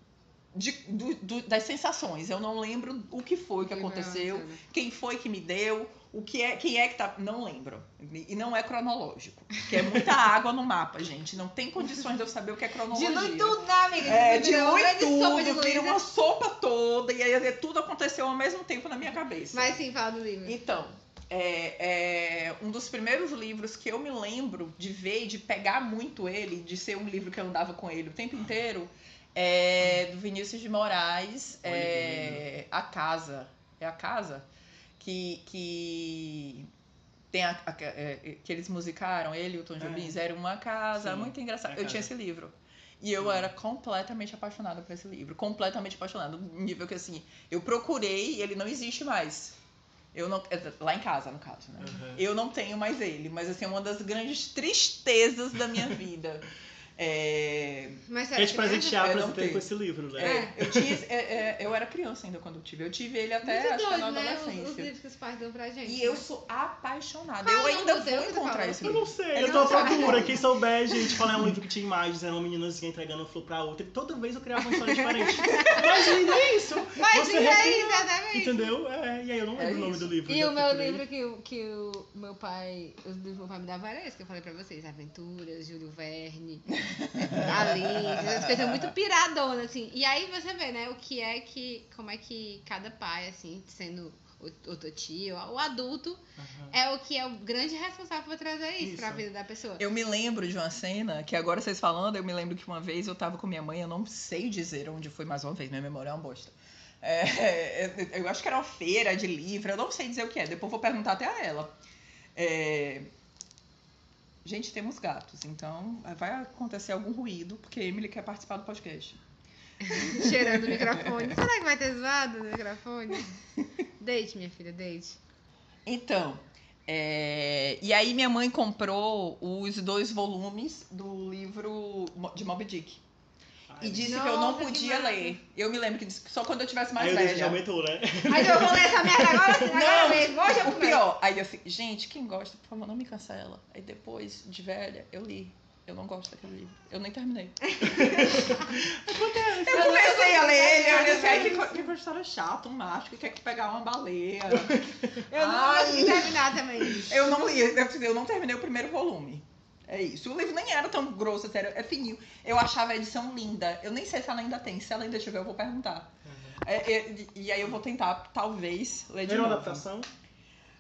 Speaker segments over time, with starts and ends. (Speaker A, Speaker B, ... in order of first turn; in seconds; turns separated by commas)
Speaker A: 0.5-19.8, Speaker B: 3.7-4.6, Speaker B: 12.9-16.0, Speaker B: 19.5-20.6, Speaker A: 20.4-34.5, Speaker C: 31.6-32.5, Speaker A: 35.0-36.7, Speaker A: 37.3-49.6, Speaker C: 39.8-40.2, Speaker C: 41.0-42.1, Speaker C: 43.2-43.5, Speaker A: 50.1-58.0, Speaker C: 51.8-52.2, Speaker B: 58.1-59.1, Speaker C: 58.4-61.0, Speaker A: 59.0-64.9, Speaker B: 60.2-60.5, Speaker B: 63.4-66.2, Speaker A: 65.9-70.4, Speaker B: 67.4-70.4, Speaker C: 68.8-81.0, Speaker B: 75.4-76.1, Speaker B: 77.0-78.7, Speaker A: 79.6-80.1, Speaker B: 80.3-99.8, Speaker A: 86.7-88.5, Speaker C: 96.4-96.7, Speaker C: 98.8-99.2, Speaker A: 99.8-111.7, Speaker A: 112.3-113.1, Speaker A: 114.4-119.2, Speaker B: 119.8-123.4, Speaker A: 120.0-121.4, Speaker B: 124.0-125.2, Speaker A: 125.9-133.0, Speaker C: 133.7-134.2, Speaker A: 133.8-137.6, Speaker B: 134.0-135.4, Speaker C: 137.0-139.8, Speaker B: 138.3-141.0, Speaker A: 139.7-148.6, Speaker C: 147.8-150.1, Speaker A: 149.6-169.8, Speaker B: 149.7-151.7, Speaker C: 150.7-151.7, Speaker C: 154.5-155.2, Speaker B: 155.3-157.3, Speaker C: 166.3-166.6, Speaker C: 169.2-170.1